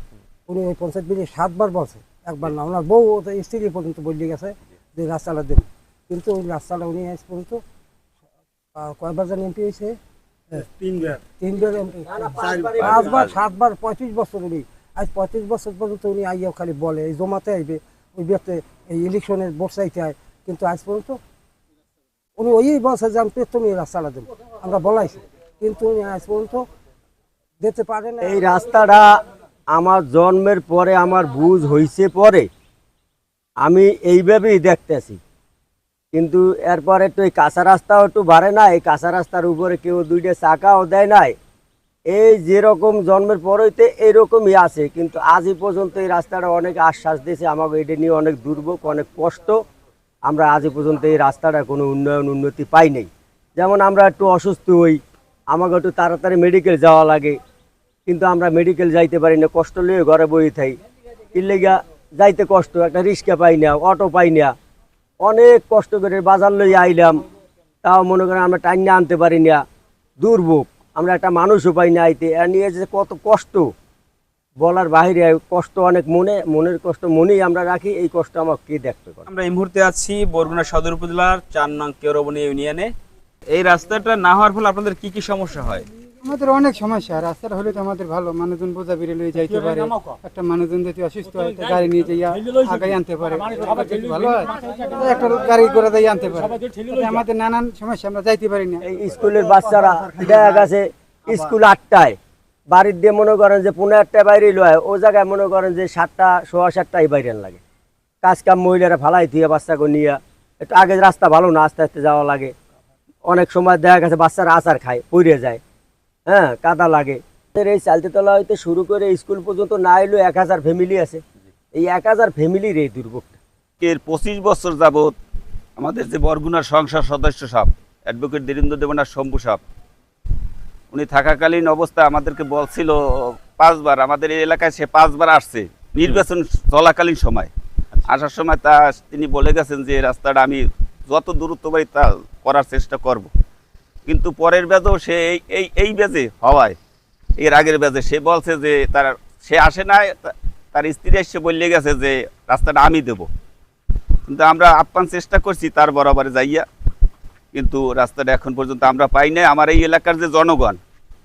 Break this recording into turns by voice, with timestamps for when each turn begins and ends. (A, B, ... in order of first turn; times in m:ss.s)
0:00.5-0:07.6 A
0:08.7-0:10.0 A
0:11.4-0:21.2 A
0:12.1-0:13.3 B
0:22.4-0:26.7 A
0:27.6-0:28.4 A
0:28.2-0:29.2 B
0:29.7-0:32.5 B
0:33.6-0:35.2 B
0:36.2-0:41.3 B
0:42.1-0:49.6 B
0:50.3-0:55.0 B
0:55.5-0:57.4 B
0:58.1-1:00.8 B
1:01.3-1:04.5 B
1:05.2-1:07.2 B
1:07.8-1:09.6 B
1:10.2-1:13.7 B
1:14.6-1:19.3 B
1:19.3-1:22.9 C
1:23.5-1:25.9 C
1:26.2-1:38.8 D
1:38.8-1:42.2 B
1:42.7-1:47.6 B
1:48.2-1:52.5 B
1:53.2-1:55.6 B
1:56.3-2:01.2 B
2:01.7-2:03.4 B
2:03.8-2:05.2 E
2:05.8-2:09.6 E
2:10.9-2:17.5 E
2:18.1-2:23.3 E
2:24.1-2:26.8 E
2:27.4-2:33.3 E
2:34.3-2:36.7 E
2:37.5-2:40.8 E